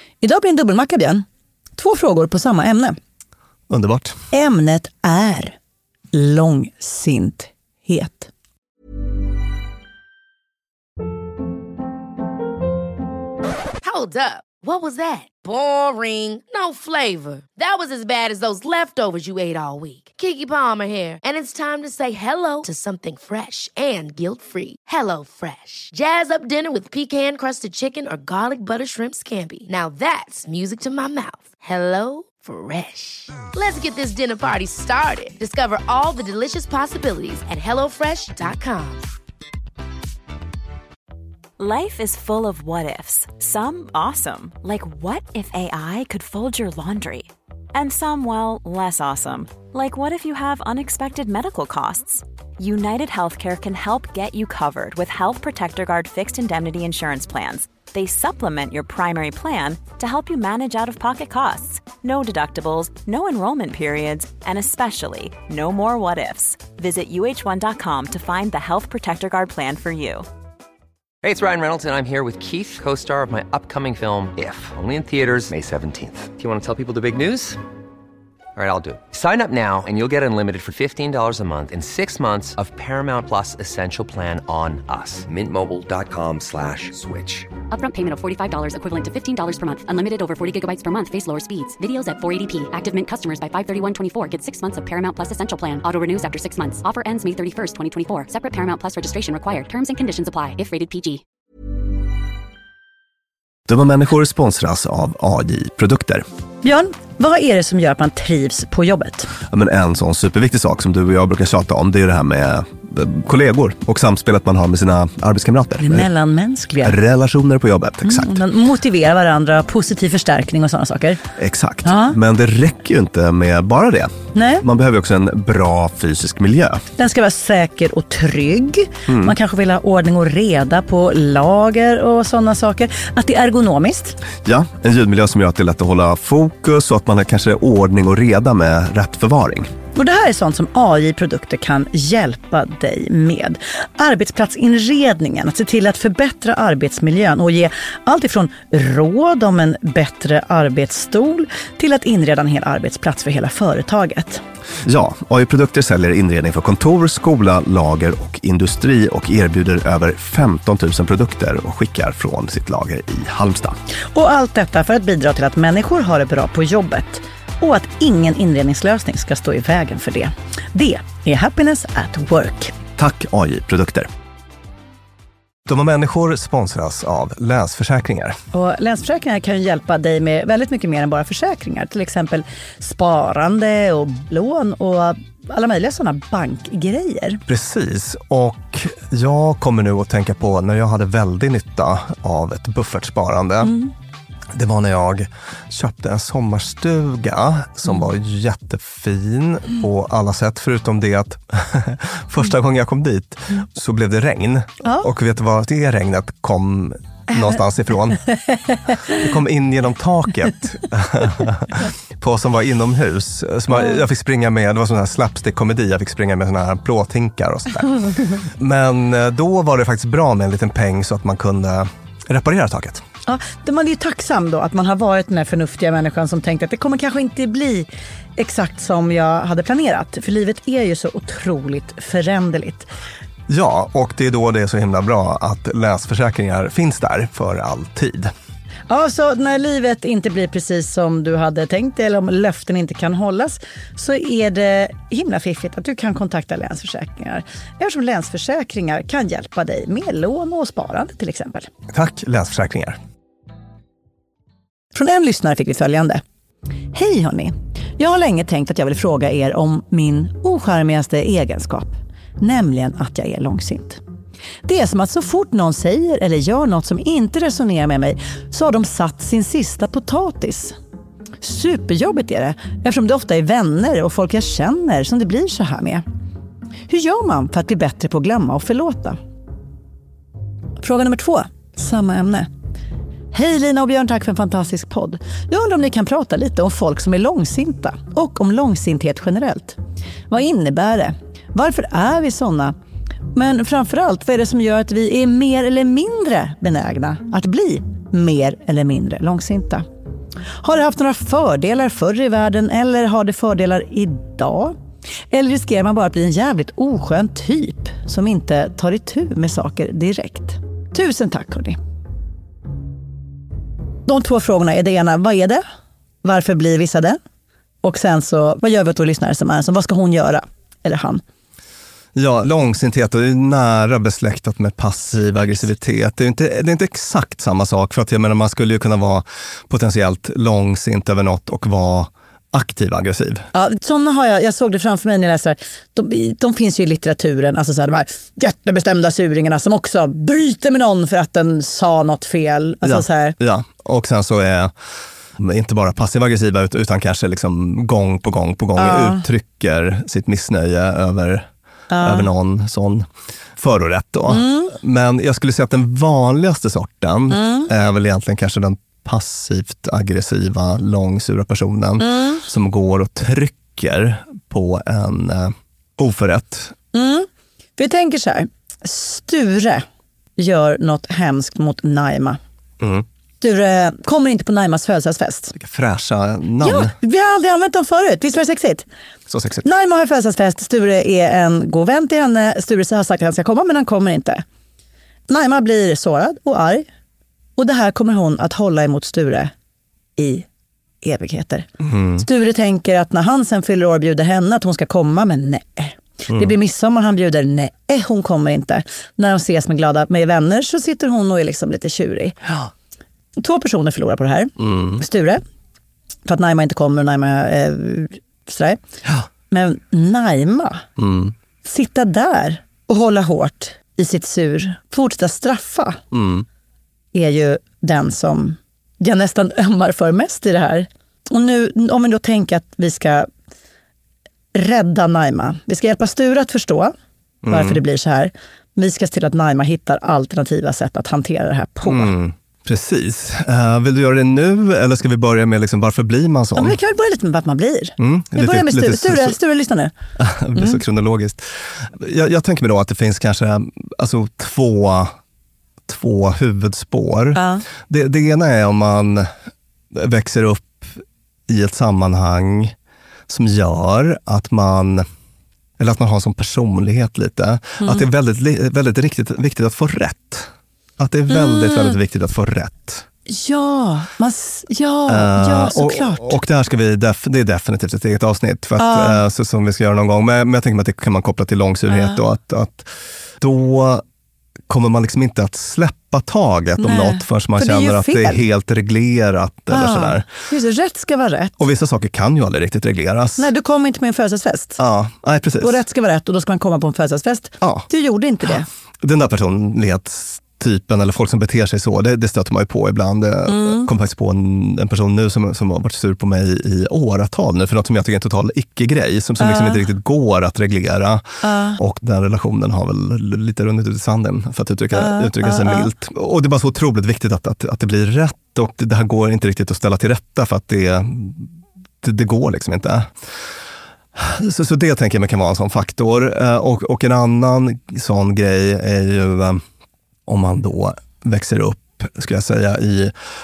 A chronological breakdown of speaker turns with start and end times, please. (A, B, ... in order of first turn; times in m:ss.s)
0:00.2-0:01.2 A
0:01.8-0:03.0 A
0:03.7-0:04.1 B
0:04.3-0:05.6 A
0:06.1-0:08.3 A
0:13.8-0:39.0 C
0:41.6-1:10.2 D
1:11.2-1:17.6 E
1:18.6-1:27.4 E
1:27.7-1:41.2 F
1:43.7-1:46.2 B
1:46.6-1:49.3 A
1:49.5-1:56.1 B
1:55.8-1:57.0 A
1:56.8-1:58.4 B
1:58.0-2:01.2 A
2:01.4-2:06.8 B
2:01.8-2:02.2 A
2:04.3-2:04.6 A
2:07.0-2:14.2 A
2:09.1-2:09.3 B
2:14.4-2:19.7 B
2:19.9-2:34.4 A
2:34.8-2:43.7 B
2:44.1-2:52.7 A
2:53.0-2:54.1 B
2:55.7-2:58.3 B
2:58.5-3:07.4 A
3:07.5-3:13.7 B
3:13.6-3:13.9 A
3:14.5-3:28.2 B
3:29.1-3:43.0 B
3:43.3-3:52.9 A
3:53.5-3:58.3 B
3:58.9-4:11.7 A
4:11.9-4:13.0 B
4:14.9-4:16.2 A
4:16.9-4:24.0 A
4:24.6-4:30.7 A
4:31.4-4:36.0 A
4:36.9-4:39.2 A
4:40.8-4:42.5 A
4:43.3-4:49.8 A
4:50.3-4:52.7 A
4:53.3-4:59.8 A
5:00.6-5:04.7 A
5:05.3-5:11.8 A
5:14.1-5:15.6 A
5:16.2-5:17.2 A
5:17.8-5:21.2 A
5:22.1-5:33.4 B
5:33.5-5:43.4 A
5:42.8-5:44.7 B
5:45.4-5:51.4 B
5:48.8-5:49.2 A
5:51.9-5:52.3 A
5:52.0-5:53.0 B
5:53.6-6:06.7 B
5:54.3-5:54.7 A
5:57.3-5:57.7 A
6:02.0-6:02.4 A
6:06.9-6:09.8 A
6:10.4-6:12.4 A
6:13.4-6:15.5 A
6:15.5-6:16.9 B
6:16.6-6:18.8 A
6:19.3-6:19.6 B
6:19.6-6:24.4 A
6:25.3-6:26.8 A
6:27.6-6:29.5 A
6:30.2-6:30.4 A
6:31.0-6:42.5 A
6:31.9-6:32.2 B
6:43.4-6:45.4 A
6:44.6-6:45.0 B
6:46.2-6:48.8 A
6:49.5-6:50.8 A
6:51.0-6:51.3 B
6:51.6-6:56.0 A
6:56.1-6:56.4 B
6:57.1-7:03.3 A
7:04.5-7:06.9 A
7:07.4-7:07.8 B
7:07.5-7:12.1 A
7:11.8-7:16.8 B
7:16.6-7:19.9 A
7:18.0-7:19.4 B
7:20.2-7:25.1 B
7:20.6-7:20.8 A
7:25.9-7:29.3 B
7:27.3-7:27.6 A
7:29.9-7:32.7 B
7:33.3-7:35.0 B
7:35.8-7:40.5 B
7:37.8-7:38.0 A
7:41.0-7:43.0 B
7:41.3-7:42.0 A
7:43.3-7:46.4 A
7:45.1-7:54.0 B
7:48.8-7:49.2 A
7:51.9-7:52.2 A
7:54.7-8:00.3 B
7:56.8-7:58.4 A
7:59.7-8:01.6 A
8:01.6-8:03.5 B
8:03.4-8:04.8 A
8:04.8-8:05.8 B
8:05.6-8:08.7 A
8:09.0-8:21.2 B
8:13.5-8:13.9 A
8:19.4-8:19.8 A
8:21.4-8:21.8 A
8:21.8-8:31.5 B
8:24.9-8:25.9 A
8:32.0-8:33.1 B
8:34.1-8:39.6 B
8:40.3-8:43.1 B